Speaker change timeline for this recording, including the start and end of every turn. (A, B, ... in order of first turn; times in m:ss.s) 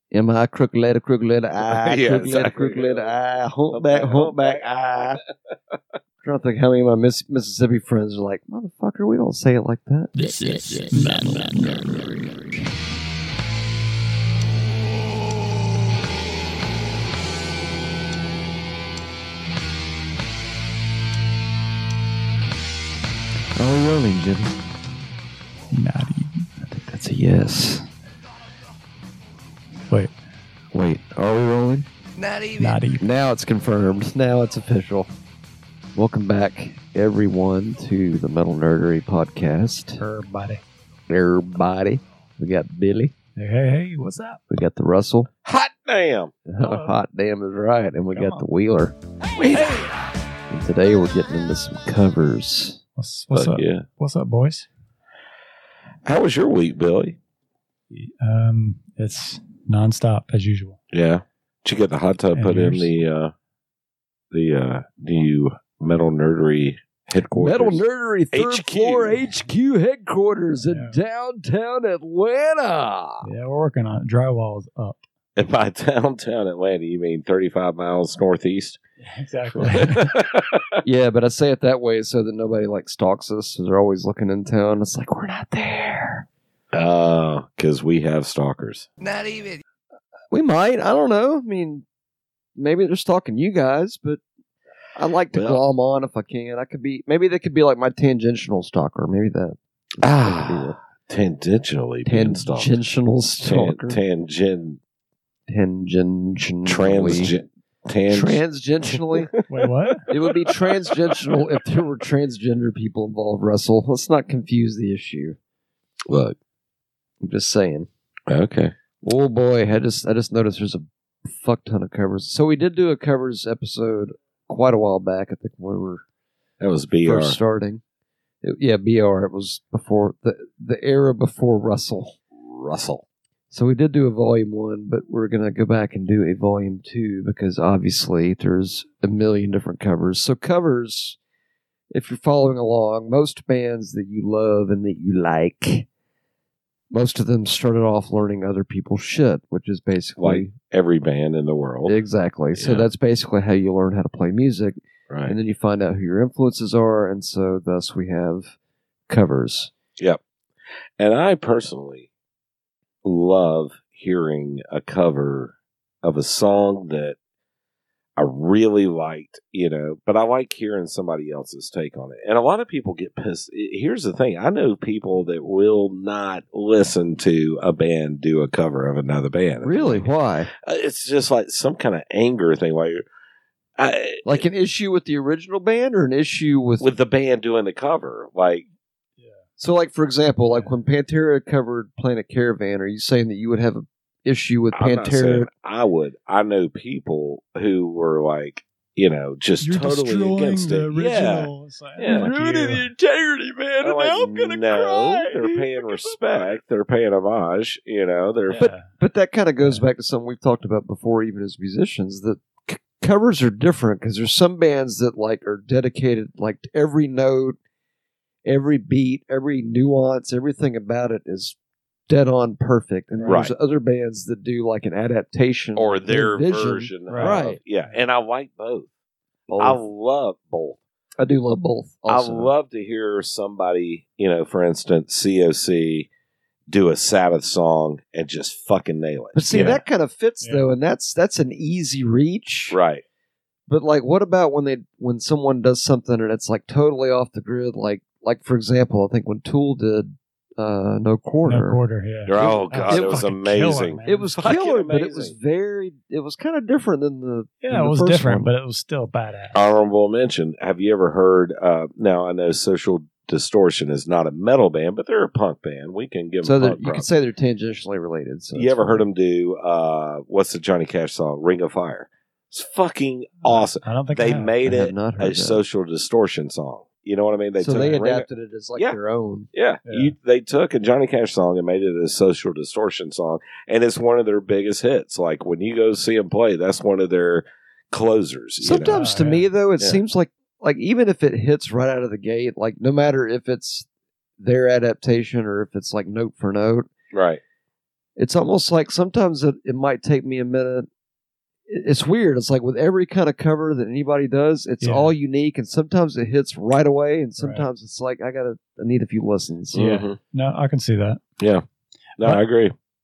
0:00.1-0:05.2 A
0:01.6-0:03.1 B
0:03.7-0:05.8 B
0:06.2-0:10.1 A
0:10.2-0:12.1 C
0:23.6-0:24.6 A
0:25.7-0:26.7 D
0:26.7-0:27.9 A
0:30.7-0:31.9 A
0:32.2-0:32.8 C
0:32.6-0:33.0 D
0:33.0-0:35.1 A
0:36.0-0:40.0 A
0:40.0-0:40.6 D
0:41.1-0:43.1 A
0:43.4-0:44.4 D
0:44.5-0:45.3 A
0:45.4-0:46.4 B
0:46.5-0:49.0 A
0:46.6-0:47.0 D
0:48.2-0:48.5 D
0:49.4-0:49.9 B
0:50.5-0:52.8 A
0:53.0-0:54.7 D
0:53.3-0:53.8 B
0:56.0-0:57.2 B
0:57.9-1:00.8 D
1:00.9-1:03.3 B
1:02.3-1:02.9 D
1:04.3-1:09.2 B
1:07.3-1:13.3 A
1:10.6-1:11.0 D
1:13.2-1:15.0 D
1:15.4-1:18.8 B
1:19.0-1:20.2 D
1:19.5-1:20.7 B
1:20.8-1:26.3 A
1:26.7-1:28.9 B
1:29.0-1:29.6 C
1:30.3-1:31.8 A
1:32.6-1:34.2 A
1:35.0-1:40.8 A
1:35.3-1:35.6 B
1:40.0-1:42.8 B
1:42.1-1:44.0 A
1:43.4-1:44.8 B
1:45.5-1:47.4 A
1:46.7-1:51.4 B
1:48.1-1:49.4 A
1:49.5-1:50.1 D
1:50.1-1:55.4 A
1:56.1-1:56.4 B
1:57.2-1:57.9 A
1:58.3-1:58.7 B
1:59.0-2:06.0 A
2:06.6-2:07.4 B
2:07.0-2:07.8 A
2:08.4-2:12.2 A
2:12.4-2:13.0 B
2:13.5-2:21.2 A
2:21.9-2:25.9 A
2:26.9-2:30.5 A
2:30.2-2:32.0 B
2:31.8-2:38.5 A
2:32.6-2:32.9 B
2:35.1-2:35.4 B
2:39.1-2:39.7 A
2:41.0-2:42.1 B
2:43.0-2:47.2 B
2:48.2-3:03.0 B
2:59.6-3:00.5 A
3:03.8-3:04.4 B
3:04.2-3:06.9 A
3:06.8-3:08.6 B
3:09.2-3:09.4 D
3:09.6-3:15.5 A
3:14.7-3:22.3 B
3:19.6-3:22.9 D
3:22.0-3:26.5 A
3:23.8-3:28.7 B
3:28.5-3:28.8 D
3:28.5-3:37.6 A
3:38.4-3:41.6 A
3:42.1-3:47.6 A
3:43.2-3:43.4 D
3:43.3-3:43.5 B
3:45.8-3:48.9 B
3:47.1-3:48.0 D
3:49.5-3:49.8 A
3:49.6-3:50.8 B
3:51.2-3:52.5 A
3:52.1-3:56.1 B
3:56.7-3:59.8 B
3:59.4-4:02.8 A
3:59.5-3:59.8 D
4:00.4-4:00.7 D
4:02.7-4:03.0 B
4:03.7-4:11.8 A
4:11.4-4:14.3 D
4:12.2-4:15.4 B
4:12.3-4:13.2 A
4:14.0-4:18.5 A
4:17.6-4:19.6 D
4:19.5-4:27.1 B
4:26.4-4:29.0 A
4:28.5-4:38.3 B
4:33.4-4:34.6 D
4:34.6-4:35.6 A
4:37.6-4:39.5 A
4:39.5-4:49.0 B
4:39.9-4:40.1 D
4:48.6-4:53.9 A
4:48.9-4:49.5 D
4:54.4-4:56.9 A
4:57.1-4:57.4 B
4:58.2-5:00.9 A
5:01.7-5:09.9 A
5:04.8-5:05.1 D
5:07.4-5:07.7 D
5:09.7-5:10.2 B
5:09.8-5:11.2 D
5:11.4-5:11.6 B
5:12.2-5:12.8 B